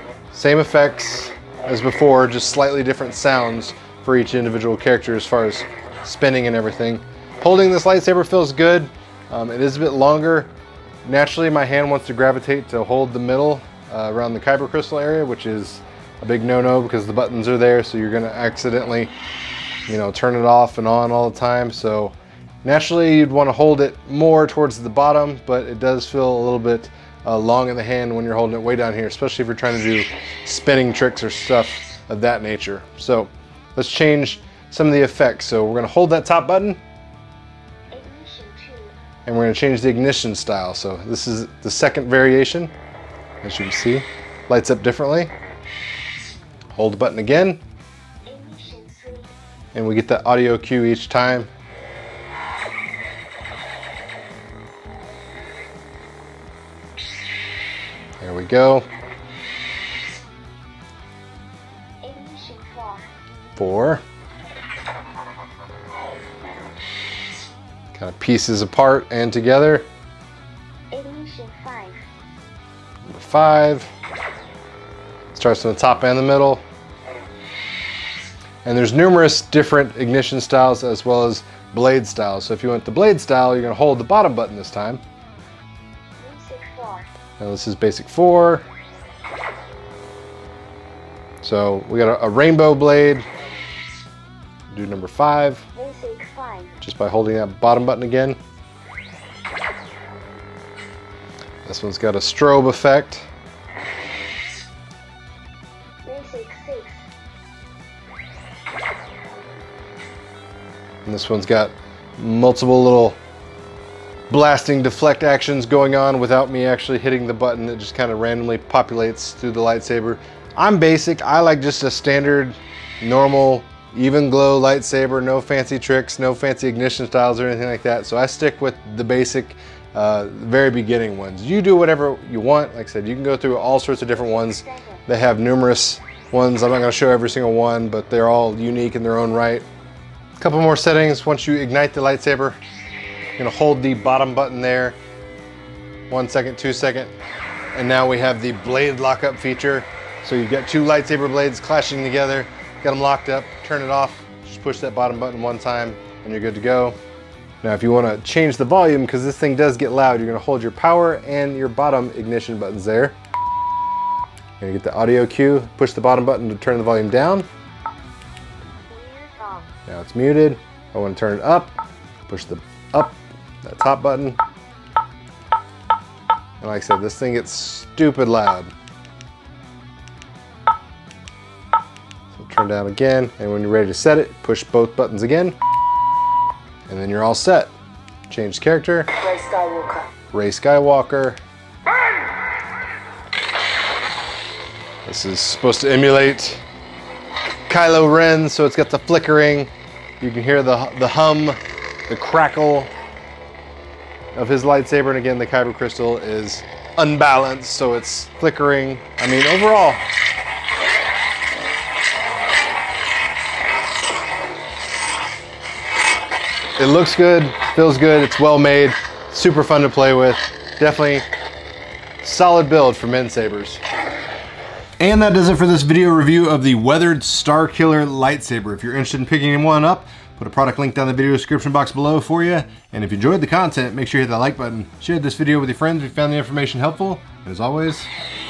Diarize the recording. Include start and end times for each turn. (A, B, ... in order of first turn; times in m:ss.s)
0:00.3-0:10.5 A
0:11.0-0:19.1 A
0:19.9-0:36.8 A
0:37.9-0:38.9 B
0:39.2-0:42.7 A
0:43.4-0:45.3 A
0:46.7-0:47.6 A
0:48.2-0:49.3 B
0:49.7-0:51.5 A
0:58.2-0:58.9 A
1:02.0-1:03.1 B
1:03.6-1:04.0 A
1:07.9-1:09.8 A
1:10.9-1:12.0 B
1:13.1-1:13.9 A
1:15.3-1:16.6 A
1:18.6-1:25.0 A
1:26.2-1:27.1 B
1:27.4-1:28.6 A
1:31.4-1:33.3 A
1:34.7-1:35.6 A
1:35.8-1:36.8 B
1:36.8-1:38.4 A
1:41.6-1:43.2 A
1:46.0-1:47.0 B
1:51.0-1:53.2 A
1:54.3-2:19.6 A
2:14.4-2:15.0 B
2:20.4-2:22.6 A
2:23.4-2:25.0 A
2:26.1-2:27.1 A
2:27.7-2:37.0 A
2:37.6-2:43.2 A
2:44.6-2:47.5 A
2:48.9-2:49.7 B
2:49.8-2:54.4 A
2:56.6-2:58.7 A
3:02.3-3:05.6 A
3:06.9-3:07.7 A
3:08.3-3:09.1 A
3:09.2-3:10.1 B
3:10.3-3:11.4 A
3:15.0-3:16.6 A
3:17.7-3:22.9 A
3:24.3-3:30.0 A
3:36.8-3:41.3 A
3:42.2-3:43.8 A
3:45.0-3:58.1 A